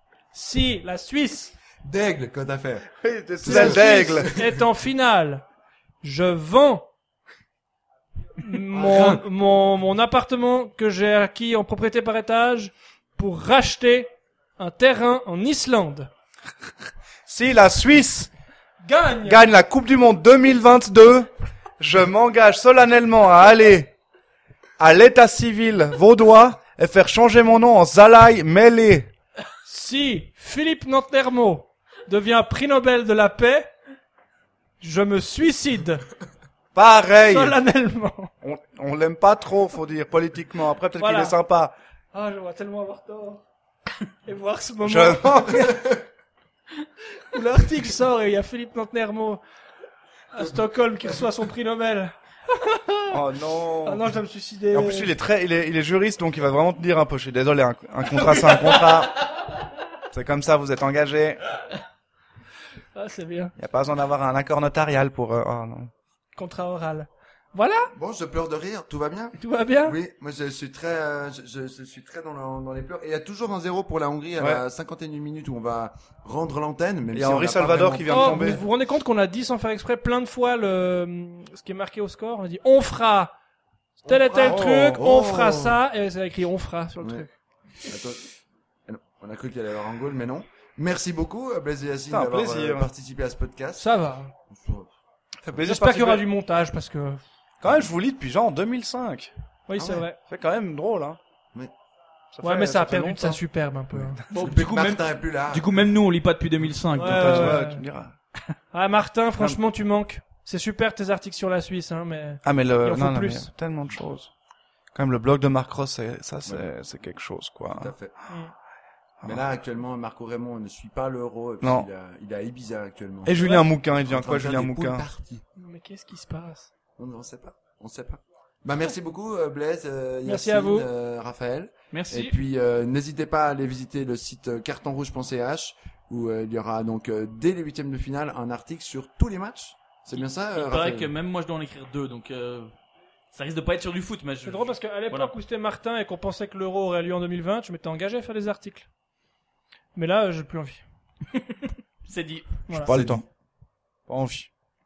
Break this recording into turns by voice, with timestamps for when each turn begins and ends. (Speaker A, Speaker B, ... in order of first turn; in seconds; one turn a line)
Speaker A: 0.3-1.5
Speaker B: 1.8-4.5
Speaker C: 3.0-4.3
Speaker A: 3.4-5.4
Speaker A: 6.0-6.9
Speaker A: 8.4-16.1
Speaker B: 8.7-9.2
Speaker C: 17.3-18.3
Speaker A: 18.8-19.5
Speaker C: 19.2-23.9
Speaker C: 24.8-29.1
Speaker A: 29.6-33.7
Speaker A: 34.8-36.0
Speaker C: 36.7-37.6
Speaker A: 37.2-38.3
Speaker C: 38.4-41.7
Speaker A: 41.0-41.3
Speaker A: 42.1-43.4
Speaker A: 44.2-45.8
Speaker C: 44.8-45.8
Speaker A: 47.3-49.4
Speaker A: 50.3-53.2
Speaker C: 53.1-54.0
Speaker A: 53.8-55.1
Speaker C: 54.7-59.2
Speaker C: 60.1-61.4
Speaker A: 62.9-63.5
Speaker C: 63.6-65.9
Speaker A: 66.3-67.9
Speaker B: 67.9-78.5
Speaker A: 69.4-70.0
Speaker C: 74.4-74.6
Speaker C: 77.1-78.6
Speaker A: 78.1-83.3
Speaker A: 84.0-87.3
Speaker B: 84.0-85.8
Speaker C: 84.4-85.0
Speaker B: 87.8-88.3
Speaker B: 88.9-93.9
Speaker C: 92.1-92.9
Speaker A: 93.8-94.3
Speaker B: 94.5-94.9
Speaker C: 95.4-96.2
Speaker A: 95.5-97.2
Speaker C: 97.6-101.2
Speaker A: 99.7-100.2
Speaker C: 102.3-103.4
Speaker A: 102.4-104.2
Speaker D: 104.3-107.6
Speaker B: 104.3-105.7
Speaker A: 106.9-107.8
Speaker C: 107.0-108.1
Speaker A: 108.7-113.5
Speaker C: 112.4-114.3
Speaker C: 114.9-117.9
Speaker B: 117.8-118.1
Speaker B: 119.2-125.4
Speaker C: 121.6-121.9
Speaker C: 123.2-125.0
Speaker A: 123.4-123.7
Speaker A: 125.5-126.7
Speaker B: 127.0-141.1
Speaker A: 130.2-130.9
Speaker D: 131.9-132.3
Speaker D: 140.5-142.7
Speaker D: 143.3-145.3
Speaker A: 144.4-148.9
Speaker A: 149.9-150.8
Speaker D: 151.3-152.6
Speaker C: 152.8-153.2
Speaker B: 152.9-153.2
Speaker C: 154.1-154.5